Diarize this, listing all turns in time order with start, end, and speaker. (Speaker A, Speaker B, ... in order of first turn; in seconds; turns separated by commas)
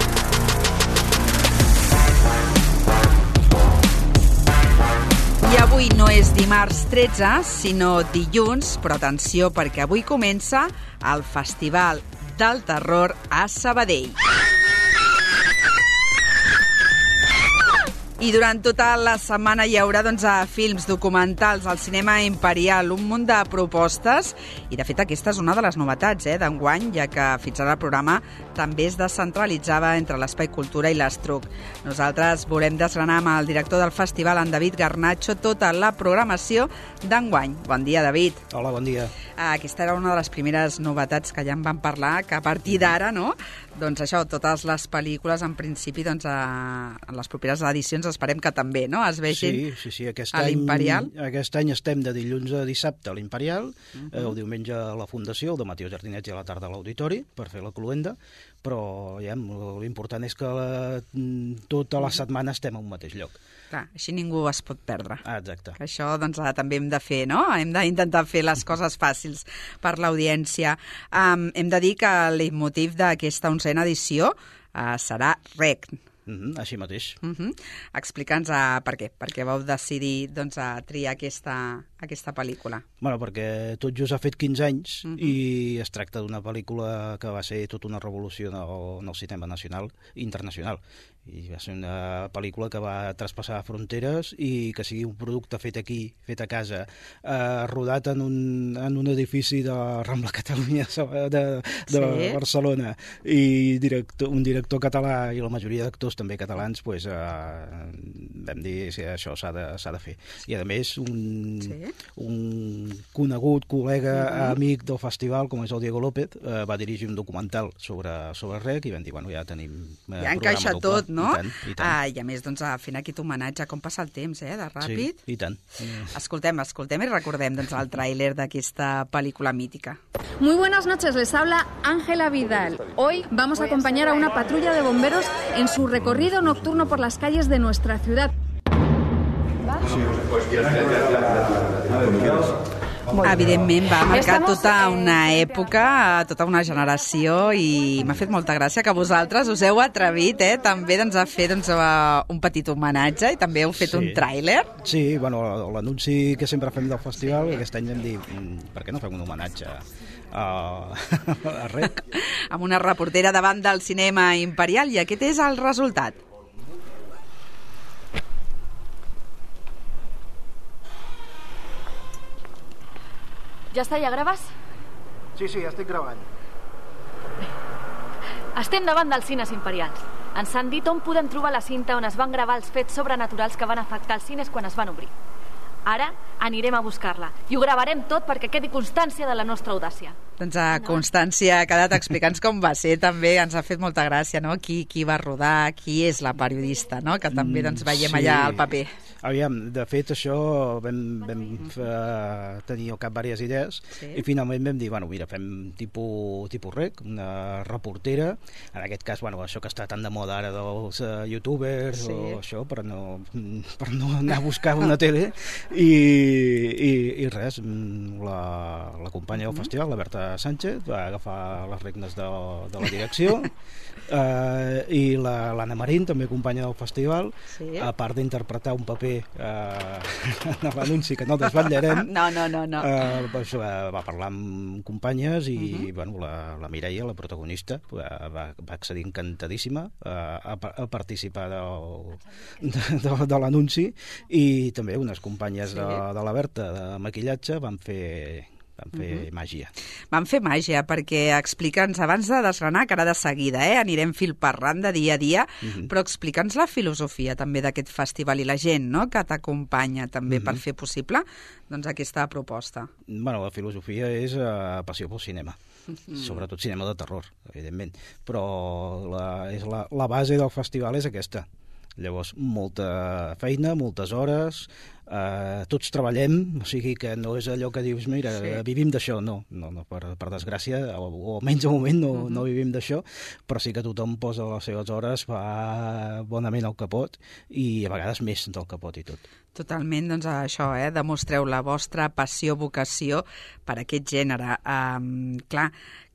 Speaker A: 5.4-14.2, Speaker A: 18.2-38.4, Speaker B: 38.5-39.1, Speaker A: 39.4-49.6, Speaker B: 42.7-42.9, Speaker B: 49.3-63.4, Speaker A: 50.3-51.1, Speaker A: 53.9-54.4, Speaker A: 63.7-65.2, Speaker B: 65.2-65.8, Speaker A: 65.8-76.0, Speaker B: 76.3-77.2, Speaker A: 77.2-82.8, Speaker B: 83.0-122.0, Speaker A: 85.1-85.4, Speaker A: 101.9-102.4, Speaker A: 111.6-112.0, Speaker A: 114.1-114.6, Speaker A: 120.2-125.2, Speaker B: 124.8-126.1, Speaker A: 126.1-130.0, Speaker C: 130.4-138.3, Speaker A: 143.2-154.7, Speaker C: 144.1-145.2, Speaker B: 153.8-154.2, Speaker B: 154.8-162.0, Speaker A: 157.2-157.6, Speaker A: 162.1-166.2, Speaker D: 173.7-174.5, Speaker B: 175.3-176.3, Speaker D: 178.6-185.1, Speaker D: 185.8-190.2, Speaker A: 190.4-198.9, Speaker B: 197.3-223.5, Speaker A: 204.0-204.2, Speaker A: 211.9-212.4, Speaker B: 224.1-232.2, Speaker A: 227.5-227.9, Speaker A: 231.6-233.1, Speaker B: 232.8-249.7, Speaker A: 235.6-235.9, Speaker A: 245.7-246.0, Speaker A: 248.9-249.3, Speaker A: 250.1-262.9, Speaker B: 255.6-255.9, Speaker B: 260.3-260.6, Speaker B: 263.1-265.6, Speaker B: 266.1-271.4, Speaker B: 272.0-289.2, Speaker A: 278.3-278.6, Speaker A: 282.1-282.4, Speaker A: 289.5-295.7